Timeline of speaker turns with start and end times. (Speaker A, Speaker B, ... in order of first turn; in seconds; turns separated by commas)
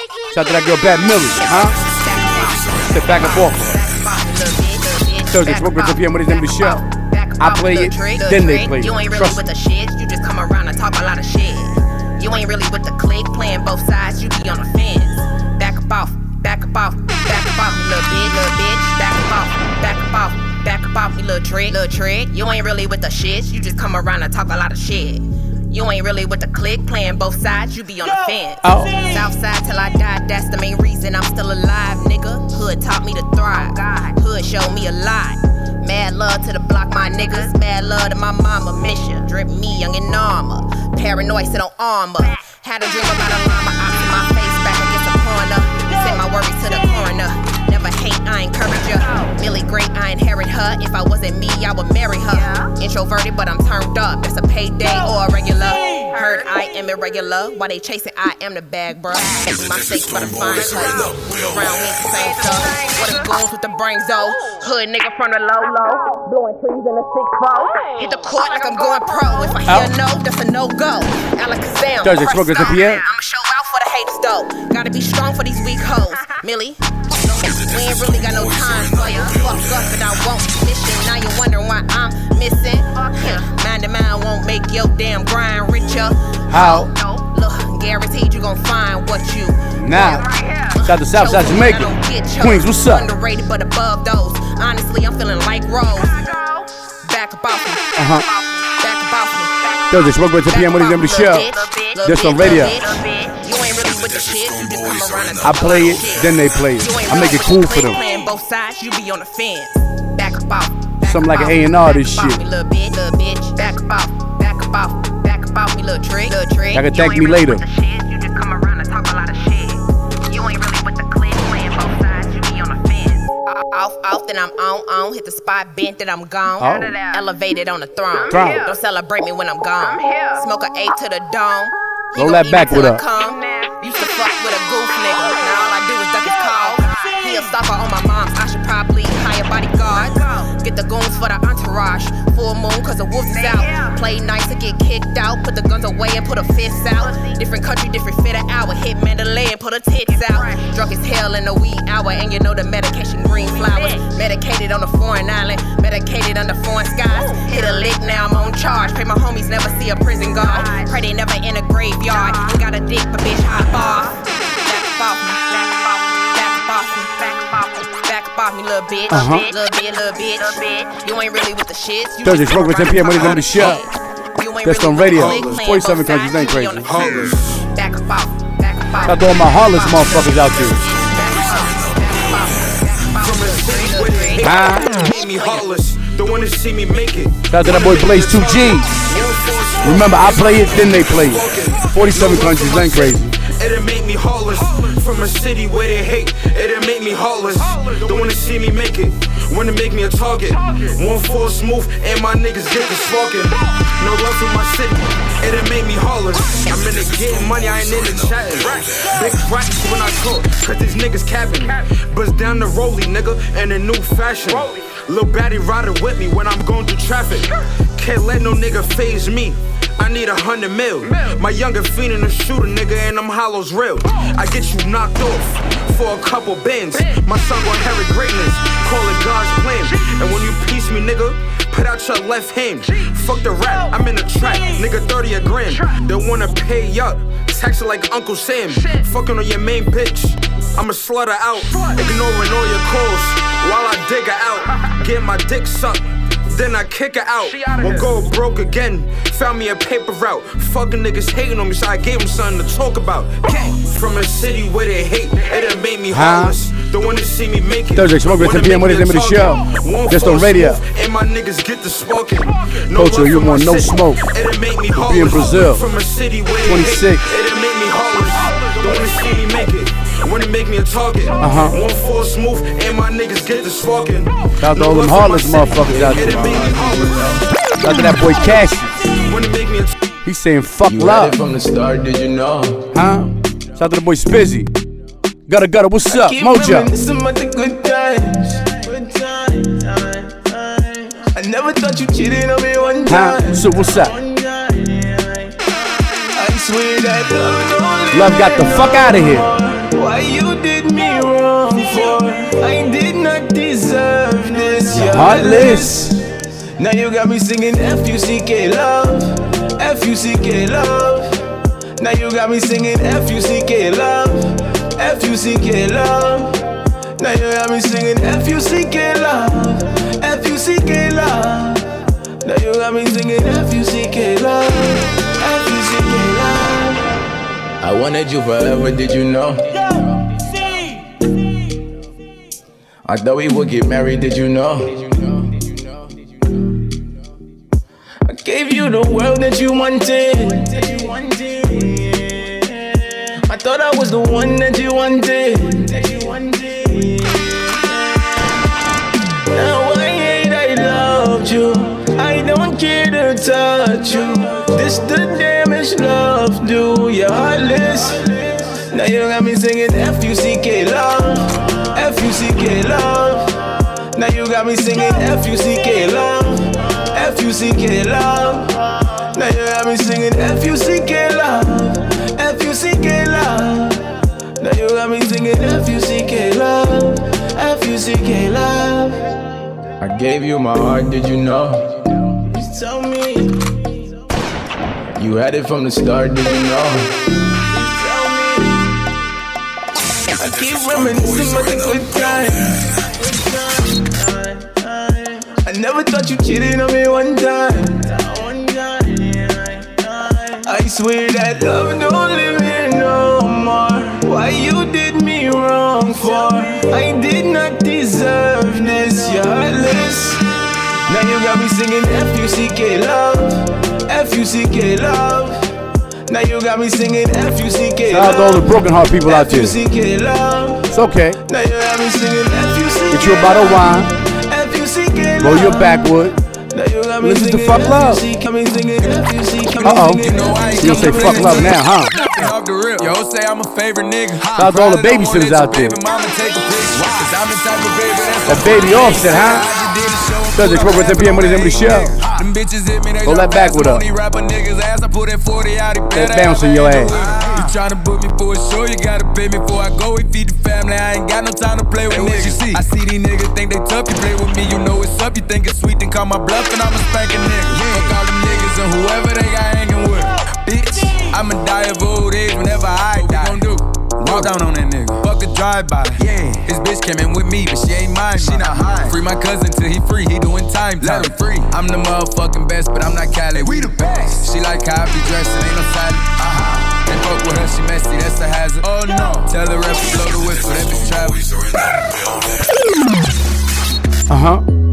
Speaker A: 0.3-1.8, Speaker B: 1.3-176.9, Speaker A: 2.8-3.8, Speaker A: 5.3-6.8, Speaker A: 7.4-9.4, Speaker A: 28.6-29.1, Speaker A: 69.7-69.9, Speaker A: 72.0-73.0, Speaker A: 86.5-86.9, Speaker A: 89.8-90.2, Speaker A: 90.8-93.1, Speaker A: 98.0-98.2, Speaker A: 99.9-102.8, Speaker A: 105.4-108.0, Speaker A: 111.0-112.4, Speaker A: 116.7-117.6, Speaker A: 126.6-127.0, Speaker A: 128.3-128.7, Speaker A: 132.2-133.0, Speaker A: 169.1-169.5, Speaker A: 172.2-173.8, Speaker A: 174.6-176.9, Speaker C: 175.2-175.5, Speaker C: 176.8-177.7, Speaker B: 177.7-184.4, Speaker A: 179.1-180.8, Speaker C: 183.1-277.2, Speaker A: 184.4-185.0, Speaker B: 185.1-185.6, Speaker A: 187.5-188.9, Speaker A: 189.8-193.3, Speaker A: 256.1-256.6, Speaker A: 257.9-260.8, Speaker A: 262.9-264.2, Speaker A: 264.9-265.8, Speaker A: 266.6-267.3, Speaker A: 271.4-271.8, Speaker A: 274.6-276.4, Speaker D: 275.9-277.5, Speaker A: 277.8-278.9, Speaker C: 279.1-279.9, Speaker A: 280.2-281.4, Speaker D: 280.9-282.9, Speaker A: 282.9-284.7, Speaker A: 285.5-286.9, Speaker D: 286.1-306.2, Speaker A: 293.1-294.2, Speaker A: 298.1-299.5, Speaker A: 304.9-306.2, Speaker D: 306.8-311.4, Speaker D: 312.0-327.1, Speaker D: 327.8-330.5, Speaker D: 333.1-336.9, Speaker D: 338.3-348.6, Speaker D: 349.5-379.3, Speaker D: 380.0-384.1, Speaker D: 385.1-389.0, Speaker D: 390.4-410.4, Speaker D: 411.1-415.7, Speaker D: 416.3-426.1, Speaker A: 418.1-419.8, Speaker A: 420.9-421.4, Speaker A: 423.1-424.1, Speaker A: 425.4-426.4, Speaker D: 426.7-432.3, Speaker A: 427.2-428.2, Speaker A: 429.8-430.2, Speaker E: 430.2-481.5, Speaker A: 430.8-432.1, Speaker A: 434.6-436.0, Speaker A: 438.5-439.7, Speaker A: 440.6-442.2, Speaker A: 443.2-444.1, Speaker A: 446.1-447.1, Speaker D: 457.8-458.1, Speaker A: 484.3-484.7